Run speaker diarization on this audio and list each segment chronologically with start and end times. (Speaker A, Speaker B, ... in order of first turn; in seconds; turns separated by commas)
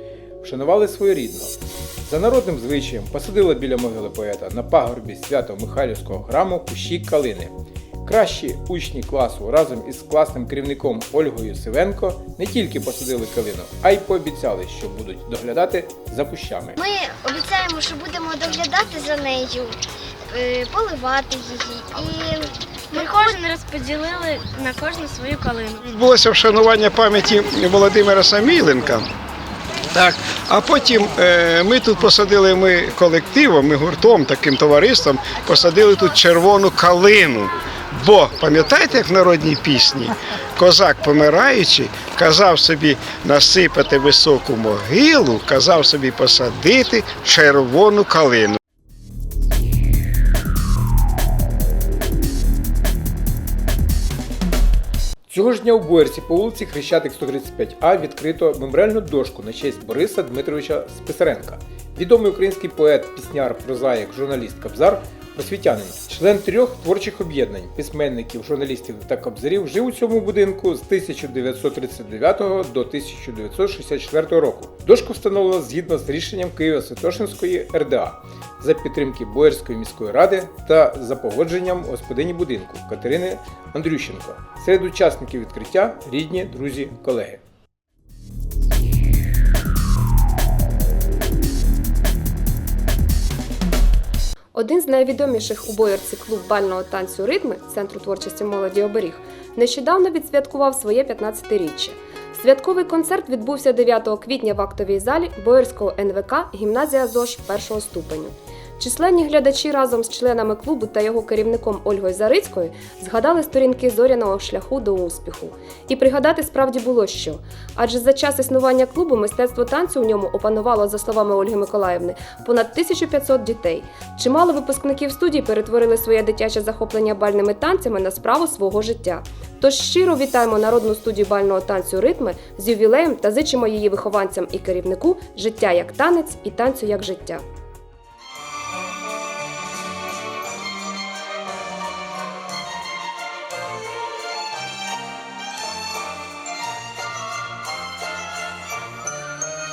Speaker A: 0.4-7.5, Speaker A: 8.0-16.8, Speaker B: 16.8-19.8, Speaker B: 20.3-23.4, Speaker C: 22.9-25.8, Speaker D: 25.8-29.1, Speaker D: 29.9-48.6, Speaker A: 55.3-87.4, Speaker E: 94.5-137.4